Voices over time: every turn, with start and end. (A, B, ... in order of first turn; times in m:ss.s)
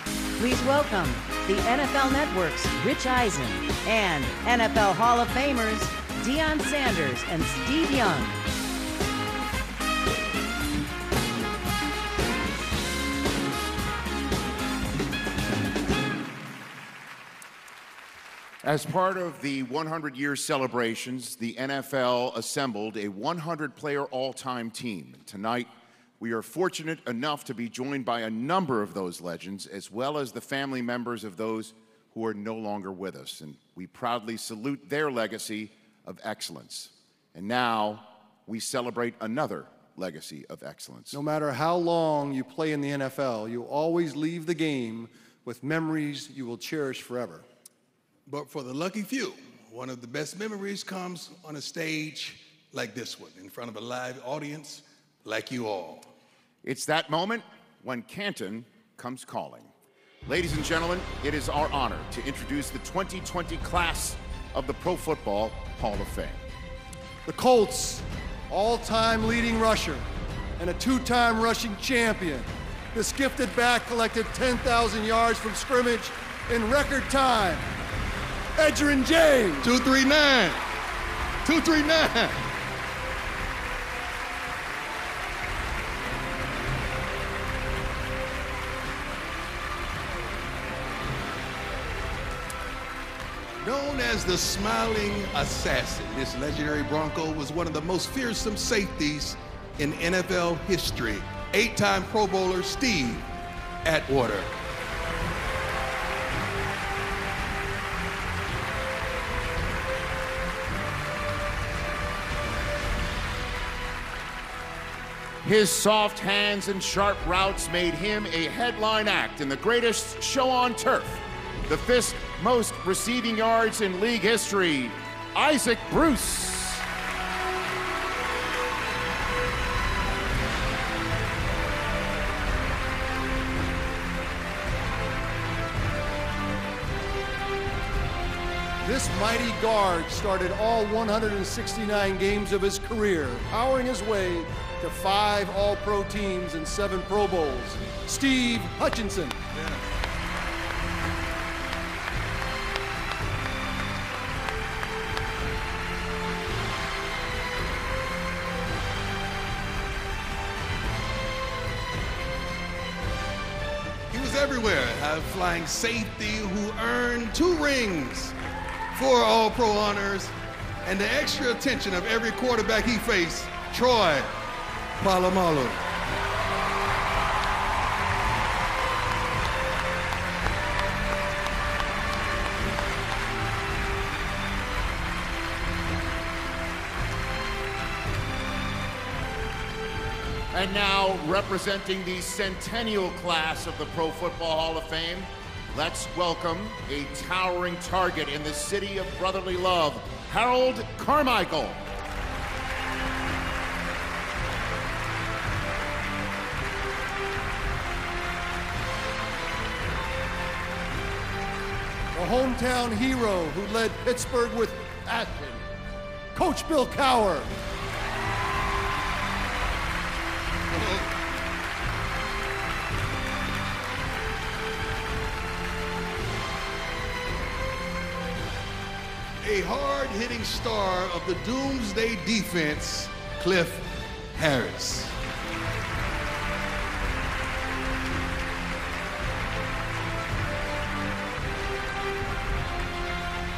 0:00.4-0:08.4 A
0:18.6-0:25.7 B
0:26.2-0:41.2 B
0:41.1-0:47.4 C
0:48.3-0:56.1 D
0:56.6-0:59.7 B
1:00.2-1:06.4 B
1:07.2-1:10.0 C
1:10.6-1:17.7 C
1:18.6-1:19.7 C
1:19.6-1:20.6 D
1:21.4-1:22.4 D
1:33.6-1:43.3 D
1:43.8-1:44.6 D
1:55.4-2:06.8 B
2:18.8-2:29.4 C
2:29.5-2:29.8 D
2:44.1-2:48.4 D
2:48.9-2:54.3 D
2:55.0-2:55.9 D
3:10.5-3:21.8 B
3:32.1-3:35.6 C
3:36.3-3:37.5 C
3:40.7-3:41.1 D
3:49.4-3:55.2 D